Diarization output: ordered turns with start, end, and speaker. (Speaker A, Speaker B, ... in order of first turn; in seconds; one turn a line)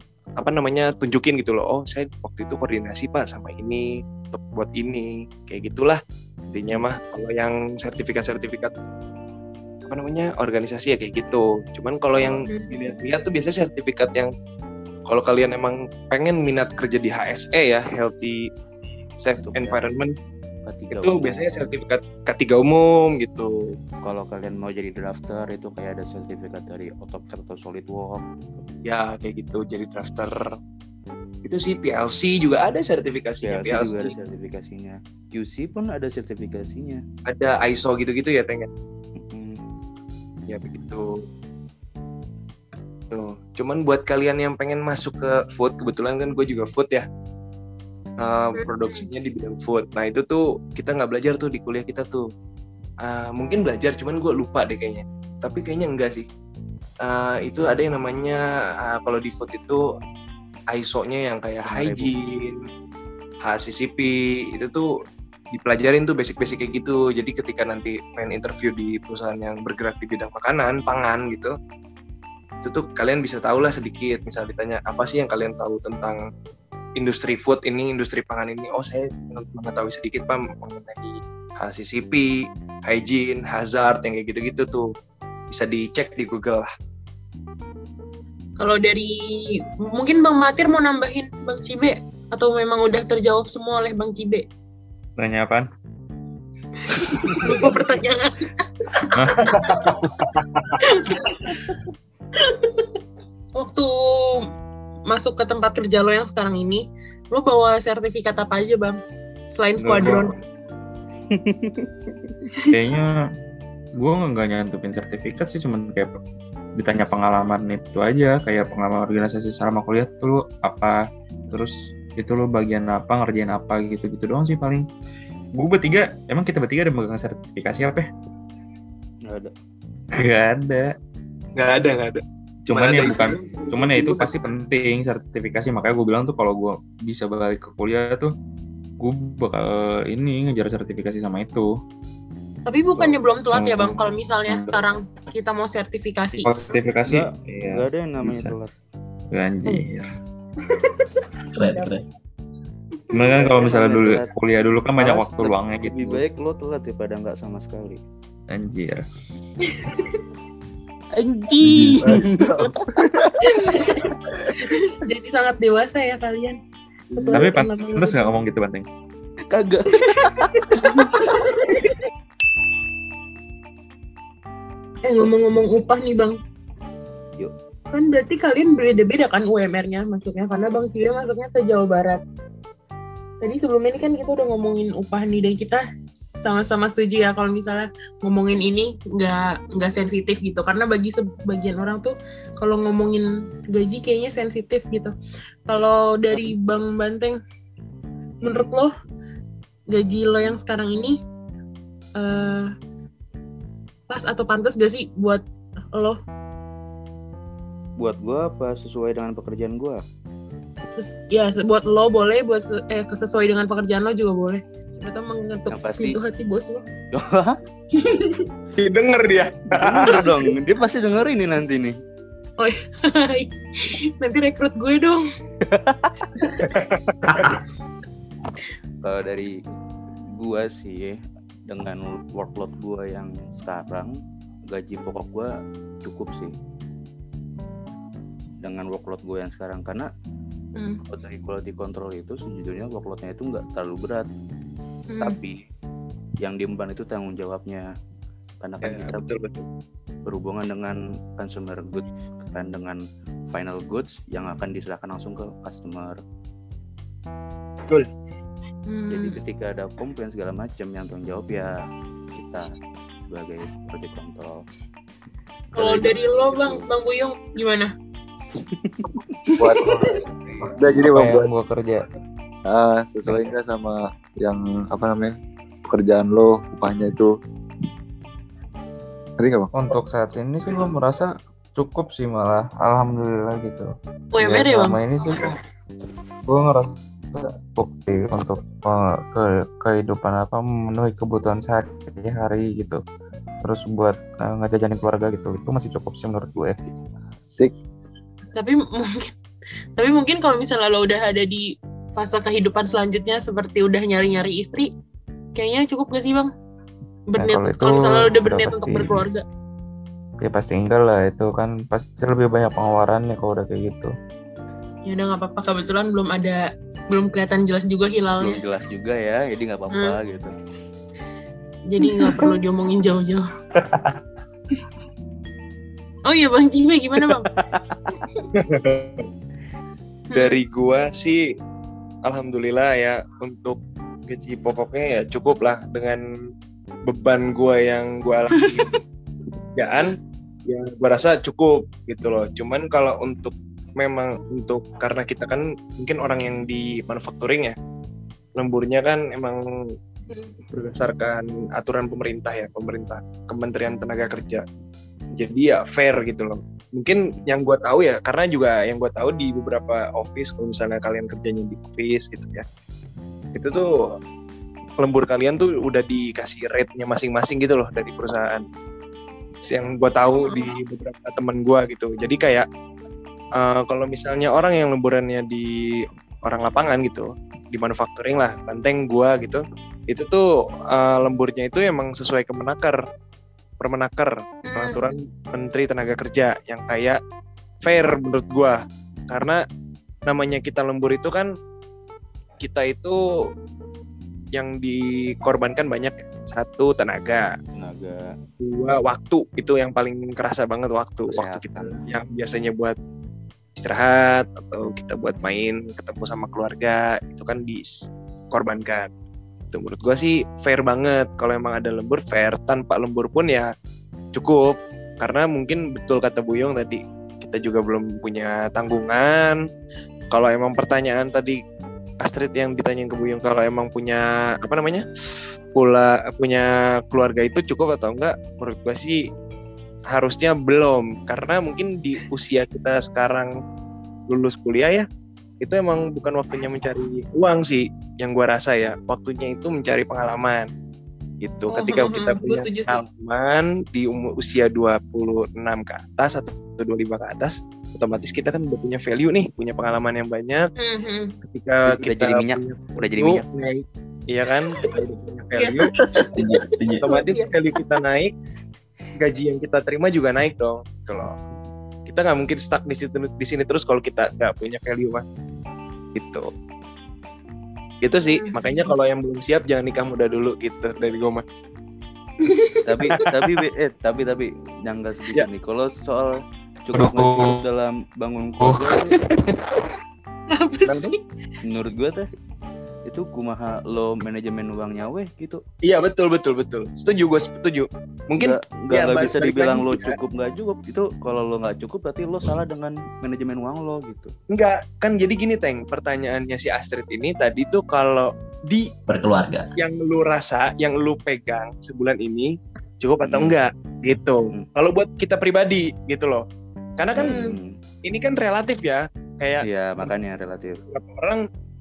Speaker A: 0.3-8.7
Speaker A: 9.8-14.3
Speaker B: 12.1-12.4
Speaker C: 12.5-12.8
Speaker A: 15.1-18.4
Speaker A: 19.2-20.1
Speaker B: 19.3-19.9
Speaker B: 20.6-21.7
Speaker A: 20.9-23.5
Speaker B: 24.0-28.6
Speaker A: 28.8-30.4
Speaker A: 31.4-34.1
Speaker B: 33.4-37.0
Speaker A: 37.3-38.7
Speaker B: 39.2-39.6
Speaker A: 40.5-41.2
Speaker A: 43.1-47.0
Speaker A: 48.2-52.3
Speaker C: 48.5-49.1
Speaker A: 53.0-56.3
Speaker A: 57.0-59.8
Speaker A: 60.7-62.6
Speaker B: 61.8-62.0
Speaker A: 63.4-64.9
Speaker A: 65.5-71.5
Speaker A: 72.6-76.2
Speaker A: 77.0-84.9
Speaker A: 85.5-86.7
Speaker C: 88.6-89.1
Speaker C: 89.8-94.5
Speaker D: 95.2-95.7
Speaker C: 96.8-99.1
Speaker B: 97.2-97.7
Speaker D: 99.1-99.5
Speaker A: 99.5-100.7
Speaker C: 100.8-101.7
Speaker C: 102.4-102.8
Speaker C: 103.5-104.4
Speaker C: 105.1-109.0
Speaker C: 109.5-110.3
Speaker D: 109.8-110.3
Speaker B: 111.3-112.3
Speaker D: 112.7-113.2
Speaker D: 114.0-116.2
Speaker D: 116.8-124.8
Speaker D: 125.5-128.1
Speaker B: 129.3-129.5
Speaker D: 130.1-130.9
Speaker A: 131.6-134.3
Speaker D: 132.7-138.3
Speaker D: 139.0-141.7
Speaker C: 142.7-146.5
Speaker B: 143.0-143.9
Speaker D: 146.4-148.5
Speaker B: 147.0-148.7
Speaker D: 149.3-150.1
Speaker C: 150.8-151.1
Speaker E: 151.5-152.0
Speaker C: 151.6-151.9
Speaker D: 153.1-156.2
Speaker B: 153.1-154.3
Speaker B: 155.0-158.0
Speaker D: 158.5-159.0
Speaker B: 161.2-162.5
Speaker F: 161.6-162.7
Speaker B: 163.1-163.7
Speaker C: 163.5-164.0
Speaker C: 164.6-166.6
Speaker F: 167.1-167.5
Speaker C: 167.1-168.3
Speaker D: 167.3-168.8
Speaker B: 169.5-171.1
Speaker C: 170.1-171.1
Speaker C: 175.0-176.4
Speaker C: 177.9-182.2
Speaker C: 183.4-185.8
Speaker C: 186.4-195.1
Speaker C: 195.7-197.4
Speaker C: 198.4-198.9
Speaker C: 199.9-201.2
Speaker C: 202.2-202.7
Speaker C: 204.1-205.4
Speaker C: 205.9-206.2
Speaker B: 208.0-210.0
Speaker C: 210.9-216.8
Speaker B: 215.7-216.2
Speaker B: 217.1-217.6
Speaker A: 218.8-220.3
Speaker B: 219.7-222.0
Speaker C: 222.6-223.6
Speaker C: 224.2-225.2
Speaker B: 225.7-226.1
Speaker A: 226.6-227.5
Speaker D: 227.3-227.5
Speaker B: 229.0-229.5
Speaker B: 230.3-231.2
Speaker B: 231.7-234.1
Speaker B: 234.7-235.5
Speaker B: 236.0-236.5
Speaker B: 238.6-240.1
Speaker B: 241.1-244.3
Speaker C: 245.1-245.4
Speaker B: 245.2-245.6
Speaker B: 246.4-247.8
Speaker B: 248.6-249.3
Speaker A: 248.8-249.6
Speaker B: 250.2-256.2
Speaker C: 258.9-259.4
Speaker B: 259.1-261.8
Speaker B: 262.3-262.7
Speaker B: 263.2-264.6
Speaker B: 265.7-266.9
Speaker C: 265.8-267.9
Speaker B: 268.7-269.0
Speaker F: 269.6-270.0
Speaker D: 270.6-272.1
Speaker F: 270.7-271.5
Speaker F: 272.7-275.3
Speaker F: 275.9-277.3
Speaker F: 279.4-279.7
Speaker D: 279.7-285.6
Speaker C: 284.3-285.0
Speaker D: 286.5-293.0
Speaker D: 293.6-296.8
Speaker F: 297.4-297.7
Speaker C: 298.6-299.3
Speaker C: 299.9-304.9
Speaker C: 305.5-306.5
Speaker C: 307.3-309.4
Speaker D: 307.4-309.2
Speaker D: 310.4-314.1
Speaker C: 315.0-318.6
Speaker B: 318.4-320.5
Speaker C: 319.9-320.2
Speaker C: 321.9-323.5
Speaker D: 323.8-324.2
Speaker C: 326.3-327.4
Speaker B: 327.2-328.0
Speaker A: 328.6-329.3
Speaker C: 330.3-330.6
Speaker A: 330.3-331.4
Speaker A: 332.2-336.2
Speaker A: 337.1-338.8
Speaker C: 338.5-339.0
Speaker A: 339.8-340.1
Speaker A: 340.6-347.7
Speaker A: 348.6-349.6
Speaker C: 350.3-350.6
Speaker A: 350.7-354.6
Speaker A: 355.3-362.6
Speaker A: 363.5-363.9
Speaker A: 365.0-368.6
Speaker A: 369.6-372.6
Speaker A: 373.6-383.0
Speaker A: 383.8-387.2
Speaker C: 384.7-385.1
Speaker A: 387.8-389.6
Speaker A: 390.2-391.5
Speaker A: 392.6-393.2
Speaker A: 394.5-397.5
Speaker B: 397.7-398.2
Speaker A: 398.6-402.9
Speaker B: 401.3-402.0
Speaker A: 403.8-409.1
Speaker A: 409.7-413.7
Speaker A: 414.3-419.6
Speaker A: 420.3-421.6
Speaker A: 422.2-425.0
Speaker A: 425.7-429.2
Speaker A: 430.1-433.5
Speaker A: 434.3-435.1
Speaker A: 435.6-440.7
Speaker A: 441.4-450.7
Speaker C: 441.7-443.0
Speaker C: 450.8-451.4
Speaker A: 451.4-455.9
Speaker B: 451.9-453.4
Speaker C: 455.6-458.0
Speaker E: 456.3-457.0
Speaker A: 457.0-458.3
Speaker A: 459.2-461.3
Speaker A: 462.1-465.2
Speaker A: 466.1-466.5
Speaker A: 468.0-471.4
Speaker C: 468.3-468.9
Speaker C: 472.4-472.8
Speaker B: 472.9-479.1
Speaker D: 476.9-477.6
Speaker C: 480.5-481.2
Speaker B: 481.6-482.3
Speaker B: 483.0-485.6
Speaker A: 485.8-490.2
Speaker B: 488.4-494.3
Speaker A: 494.5-498.9
Speaker E: 499.1-499.7
Speaker A: 499.8-506.4
Speaker B: 503.2-503.6
Speaker A: 507.0-507.4
Speaker B: 507.2-507.7
Speaker C: 507.2-507.6
Speaker A: 508.0-510.1
Speaker B: 509.6-510.8
Speaker A: 510.9-511.4